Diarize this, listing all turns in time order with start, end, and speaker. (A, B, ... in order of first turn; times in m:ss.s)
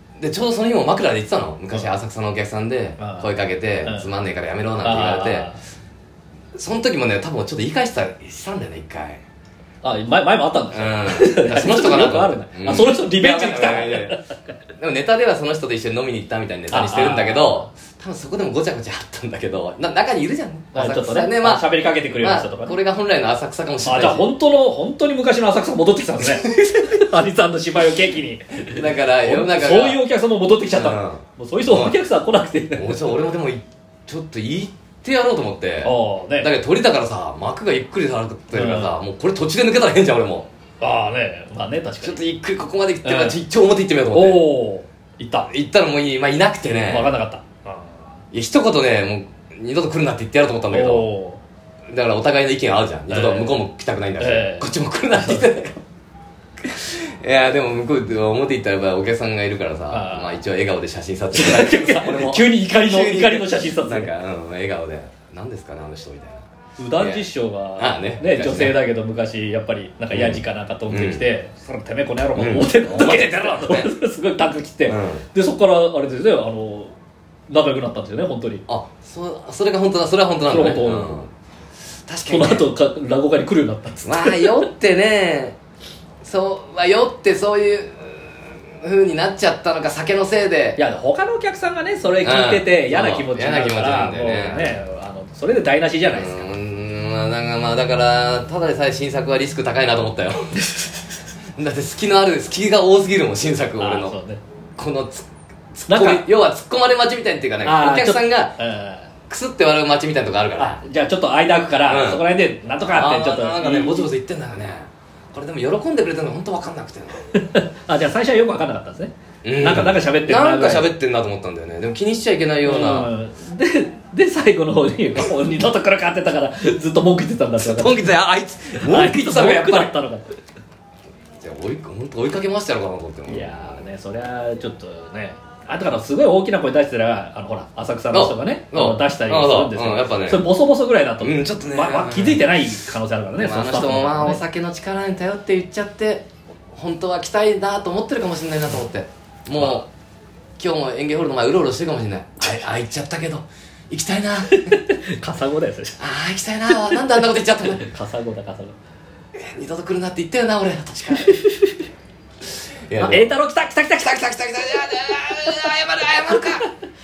0:00.2-0:05.5 A
0:03.0-0:03.3 B
0:04.8-0:05.6 B
0:06.6-0:09.2 A
0:09.8-0:14.3 B
0:10.7-0:14.2 A
0:14.8-0:24.3 A
0:16.7-0:17.7 B
0:20.7-0:22.8 B
0:23.8-0:33.2 B
0:26.5-0:26.7 A
0:28.6-0:30.0 A
0:30.7-0:32.0 A
0:32.8-0:40.5 A
0:35.8-0:36.5 B
0:38.5-0:39.0 B
0:40.8-0:42.2 B
0:42.0-0:44.5 A
0:43.0-0:43.4 B
0:44.1-0:45.5 B
0:45.5-0:47.1 A
0:46.6-0:48.1 B
0:48.3-0:51.1 A
0:50.7-0:51.4 B
0:51.9-0:55.8 A
0:53.1-0:53.6 B
0:54.2-0:55.5 B
0:56.6-1:06.4 A
0:59.9-1:00.4 B
1:01.3-1:04.1 B
1:06.8-1:16.9 B
1:07.0-1:08.8 A
1:10.1-1:11.3 A
1:12.4-1:13.9 A
1:14.9-1:15.3 A
1:17.5-1:18.6 B
1:18.7-1:21.3 A
1:20.5-1:21.2 B
1:22.1-1:22.7 A
1:22.3-1:24.7 B
1:24.0-1:25.6 A
1:26.2-1:30.9 A
1:30.8-1:36.5 B
1:32.2-1:34.8 A
1:36.1-1:40.6 A
1:41.6-1:44.2 A
1:43.8-1:44.4 B
1:44.8-1:48.6 A
1:45.9-1:46.3 B
1:47.6-1:49.1 B
1:49.3-1:50.8 A
1:50.6-1:54.1 B
1:51.9-1:52.2 A
1:52.9-1:57.2 A
1:57.3-2:00.9 B
1:59.4-2:03.1 A
2:02.6-2:08.1 B
2:07.6-2:09.9 A
2:08.8-2:10.4 B
2:11.4-2:13.8 A
2:13.3-2:24.4 B
2:18.1-2:20.5 A
2:21.2-2:22.6 A
2:23.4-2:29.9 A
2:29.6-2:29.8 B
2:30.6-2:34.8 A
2:34.5-2:36.0 B
2:36.0-2:37.8 A
2:36.7-2:38.8 B
2:39.4-2:41.4 A
2:41.2-2:41.8 B
2:42.9-2:43.3 A
2:43.0-2:45.7 B
2:43.9-2:46.7 A
2:46.3-2:46.7 B